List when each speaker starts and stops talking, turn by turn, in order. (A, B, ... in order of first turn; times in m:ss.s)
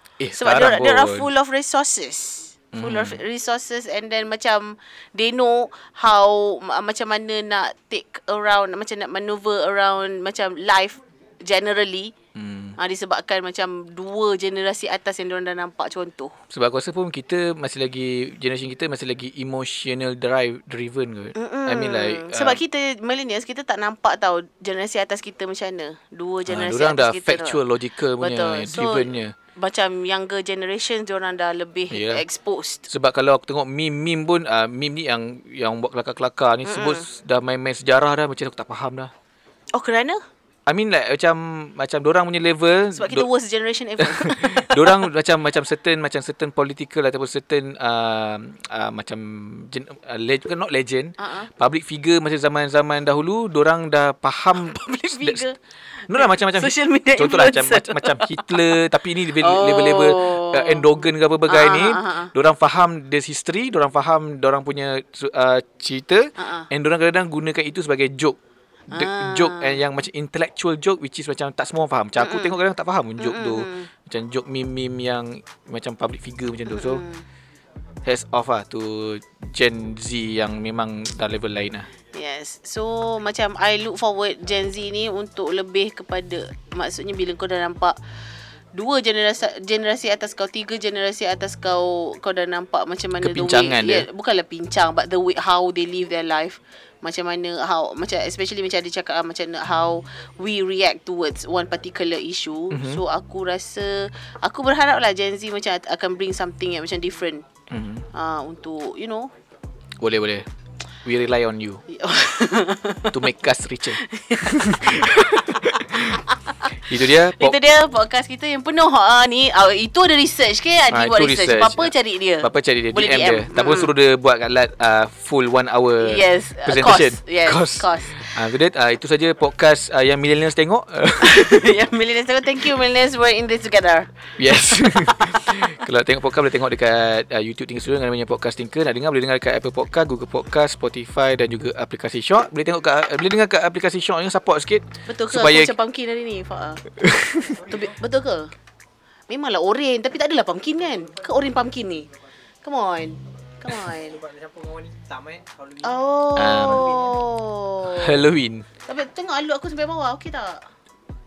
0:00.2-0:01.3 A
0:00.3-0:12.1 B
0:02.7-0:03.2 A
0:12.4-0:12.8 A
0:12.8-0:16.3 B
0:16.5-0:22.6 A
0:21.4-0:27.6 B
0:26.5-0:29.4 A
0:28.2-0:32.8 B
0:31.9-0:32.2 A
0:32.9-0:39.1 A
0:36.7-0:37.0 B
0:39.7-0:40.2 B
0:40.7-0:43.3 A
0:43.0-0:45.0 B
0:44.0-0:55.5 A
0:51.2-0:51.5 B
0:54.6-0:55.6 B
0:56.1-0:58.6 B
0:56.1-1:08.4 A
0:59.4-1:02.3 B
1:06.4-1:06.7 B
1:08.9-1:17.0 A
1:08.9-1:09.8 B
1:12.2-1:12.6 B
1:13.2-1:13.9 B
1:16.7-1:17.2 B
1:18.0-1:21.9 A
1:22.1-1:28.0 B
1:28.7-1:47.5 B
1:33.2-1:34.1 A
1:42.7-1:43.0 A
1:47.7-1:48.1 A
1:48.1-1:49.3 B
1:50.0-1:50.5 A
1:51.0-1:51.8 A
1:51.9-1:53.2 B
1:53.1-1:57.6 A
1:54.0-1:55.6 B
1:57.2-2:03.9 B
2:00.9-2:11.7 A
2:06.0-2:08.3 B
2:11.2-2:14.1 B
2:14.4-2:25.7 A
2:25.1-2:26.8 B
2:27.0-2:27.5 A
2:27.4-2:28.0 C
2:27.7-2:28.5 B
2:29.3-2:32.1 B
2:30.8-2:31.6 C
2:32.6-2:34.2 B
2:33.8-2:37.3 C
2:35.8-2:38.3 B
2:36.4-2:37.0 A
2:37.9-2:38.7 A
2:38.9-2:40.7 B